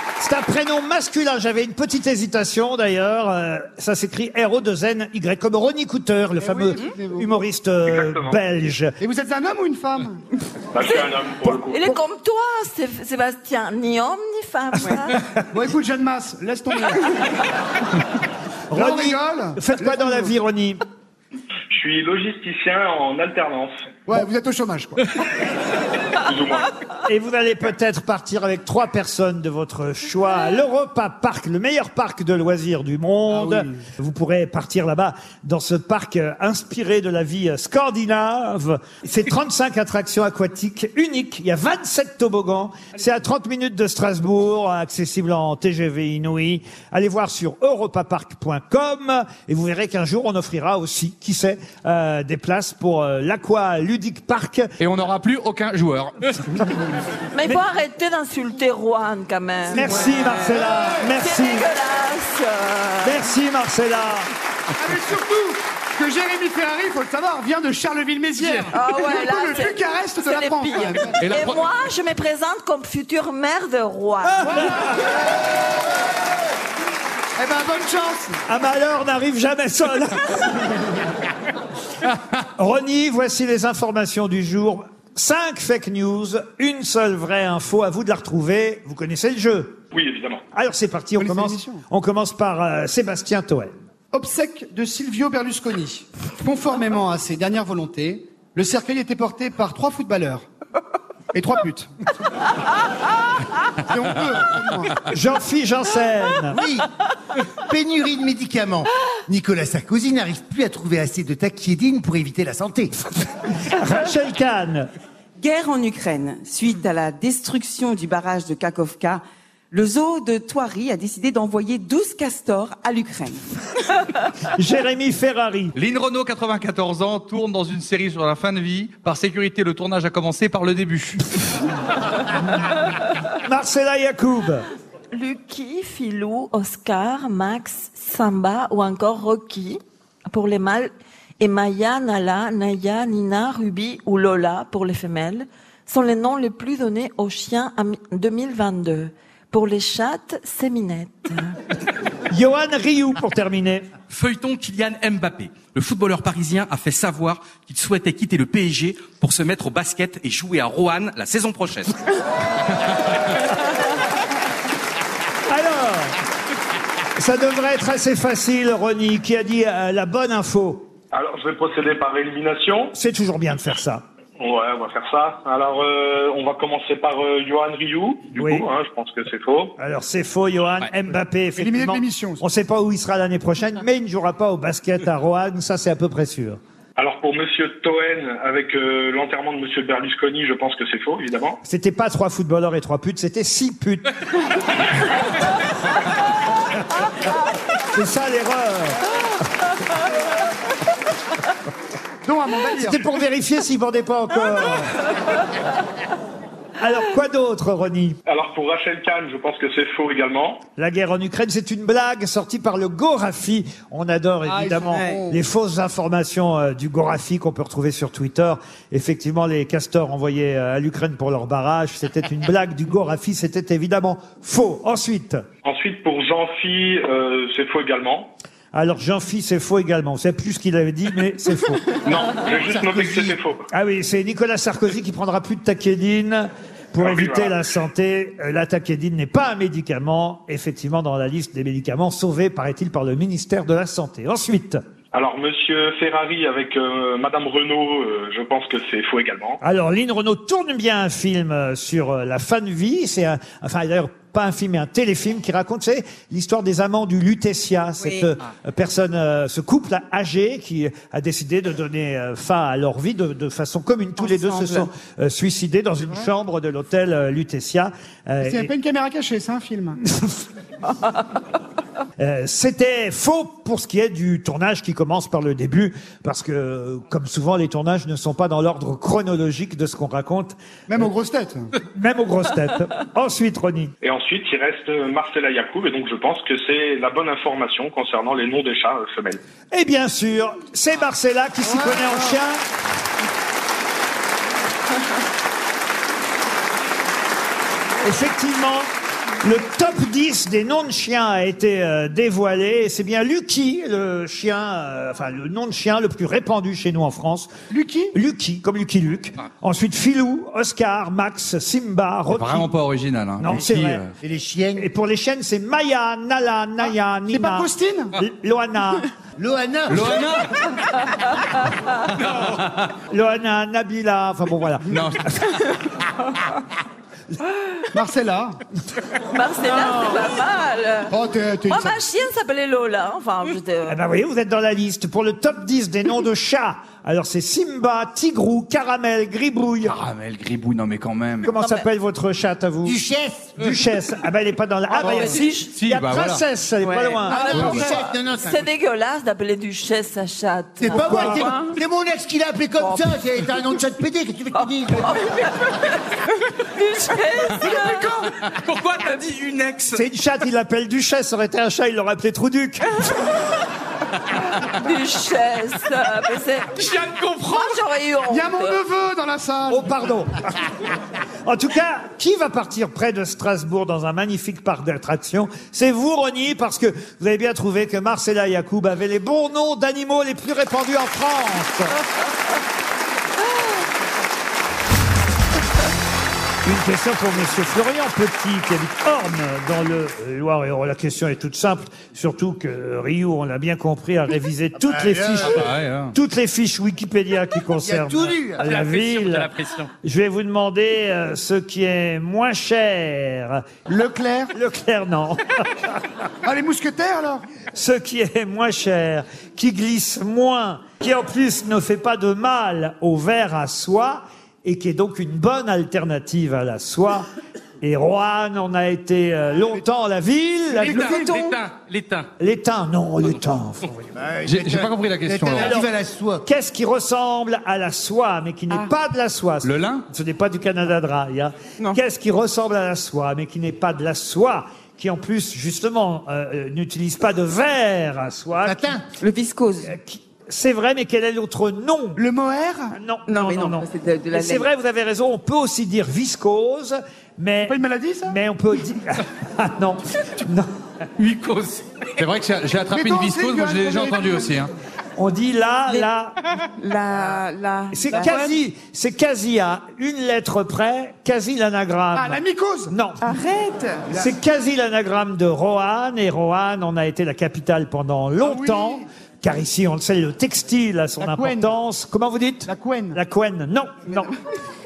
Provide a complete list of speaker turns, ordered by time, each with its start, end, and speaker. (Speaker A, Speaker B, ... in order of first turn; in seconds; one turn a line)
Speaker A: 0.2-9.0
Speaker B: 6.4-7.3
Speaker C: 7.9-8.4
Speaker B: 9.0-10.2
Speaker C: 10.7-11.9
Speaker D: 11.7-15.2
Speaker B: 15.5-17.1
Speaker A: 18.7-20.8
Speaker B: 18.7-20.3
Speaker C: 21.7-23.9
Speaker B: 24.1-25.0
Speaker C: 26.2-26.7
Speaker A: 27.1-54.7
Speaker B: 33.3-33.8
Speaker E: 54.8-56.6
Speaker D: 57.3-63.2
Speaker A: 59.7-61.7
Speaker B: 59.8-60.1
Speaker A: 63.0-64.3
Speaker B: 64.8-71.2
Speaker D: 68.7-74.7
Speaker E: 71.2-71.7
Speaker A: 74.2-75.0
Speaker B: 77.4-78.4
Speaker A: 78.5-80.9
Speaker A: 82.6-89.8
Speaker C: 89.9-90.4
Speaker A: 90.5-93.8
Speaker B: 91.2-91.8
Speaker B: 94.1-100.5
Speaker B: 101.3-101.9
Speaker B: 103.9-105.0
Speaker A: 105.1-106.6
Speaker F: 106.5-106.9
Speaker F: 107.7-112.9
Speaker A: 113.2-114.9
Speaker G: 115.4-123.4
Speaker A: 124.5-125.7
Speaker E: 125.8-131.2
Speaker A: 133.4-134.7
Speaker D: 135.1-151.6
Speaker A: 152.3-153.9
Speaker H: 154.1-162.0
Speaker A: 165.5-166.2
Speaker A: 167.2-170.9
Speaker C: 171.1-172.9
Speaker A: 172.9-174.0
Speaker C: 174.4-179.7
Speaker A: 178.4-178.7
Speaker A: 179.8-186.6
Speaker B: 181.6-182.4
Speaker C: 187.0-191.6
Speaker A: 191.6-194.1
Speaker A: 197.9-199.0
Speaker B: 202.2-203.0
Speaker A: 202.8-204.9
Speaker A: 206.8-208.2
Speaker C: 208.3-210.7
Speaker A: 210.8-225.4
Speaker B: 214.5-215.3
Speaker G: 214.9-215.3
Speaker C: 225.6-228.3
Speaker A: 228.7-232.0
Speaker C: 232.0-233.7
Speaker F: 232.7-233.3
Speaker A: 233.7-244.8
Speaker C: 237.0-237.6
Speaker C: 245.1-249.6
Speaker A: 249.6-268.7
Speaker G: 258.0-258.3
Speaker G: 264.2-264.9
Speaker B: 268.4-270.0
Speaker A: 270.1-270.4
Speaker A: 272.2-280.6
Speaker B: 280.9-281.7
Speaker A: 281.9-283.9
Speaker C: 284.0-289.4
Speaker A: 289.7-292.6
Speaker B: 291.7-292.3
Speaker A: 298.0-298.9
Speaker A: 299.4-307.5
Speaker B: 307.7-308.1
Speaker A: 308.1-312.7
Speaker E: 312.3-314.1
Speaker A: 313.4-314.0
Speaker F: 314.2-314.9
Speaker A: 314.8-319.1
Speaker B: 317.3-318.1
Speaker F: 319.4-320.4
Speaker E: 319.9-320.5
Speaker A: 323.1-325.6
Speaker E: 324.9-325.2
Speaker B: 327.9-328.6
Speaker D: 329.3-331.1
Speaker B: 331.1-332.0
Speaker D: 331.7-334.0
Speaker A: 333.9-340.0
Speaker E: 339.9-341.5
Speaker A: 341.4-343.0
Speaker D: 341.6-341.8
Speaker F: 342.9-343.6
Speaker A: 343.6-347.6
Speaker D: 345.0-345.7
Speaker G: 345.0-345.5
Speaker E: 345.2-346.4
Speaker G: 346.8-347.9
Speaker D: 347.3-351.6
Speaker B: 347.4-347.9
Speaker F: 347.5-348.6
Speaker E: 347.5-347.8
Speaker F: 350.8-355.1
Speaker A: 350.9-351.5
Speaker G: 351.0-351.8
Speaker G: 352.8-353.1
Speaker D: 354.9-355.9
Speaker D: 356.7-358.0
Speaker B: 357.6-358.3
Speaker H: 358.4-360.0
Speaker A: 359.9-363.1
Speaker D: 364.6-366.9
Speaker H: 366.8-367.8
Speaker D: 367.4-368.8
Speaker B: 368.3-370.0
Speaker A: 369.7-370.7
Speaker A: 371.4-381.9
Speaker A: 386.6-399.5
Speaker F: 394.8-395.7
Speaker E: 395.4-396.1
Speaker F: 397.8-398.6
Speaker H: 398.6-399.9
Speaker A: 400.0-403.7
Speaker B: 403.9-404.5
Speaker A: 404.5-406.0
Speaker B: 406.4-407.4
Speaker A: 407.7-417.3
Speaker A: 417.8-421.4
Speaker H: 420.8-422.3
Speaker B: 420.8-421.5
Speaker A: 422.4-424.0
Speaker F: 424.1-426.4
Speaker E: 424.5-425.8
Speaker A: 425.6-425.9
Speaker A: 426.4-439.0
Speaker E: 429.6-430.0
Speaker F: 438.6-439.0
Speaker G: 439.1-439.9
Speaker A: 439.9-442.2
Speaker B: 442.2-443.0
Speaker A: 442.9-450.7
Speaker G: 443.3-444.7
Speaker B: 447.7-448.4
Speaker H: 451.2-451.9
Speaker E: 452.2-454.7
Speaker B: 452.9-454.6
Speaker A: 455.2-456.4
Speaker G: 456.8-458.6
Speaker A: 457.9-463.3
Speaker B: 462.1-462.9
Speaker G: 463.2-464.2
Speaker A: 464.1-474.3
Speaker B: 468.4-469.1
Speaker B: 471.2-471.7
Speaker B: 472.7-473.2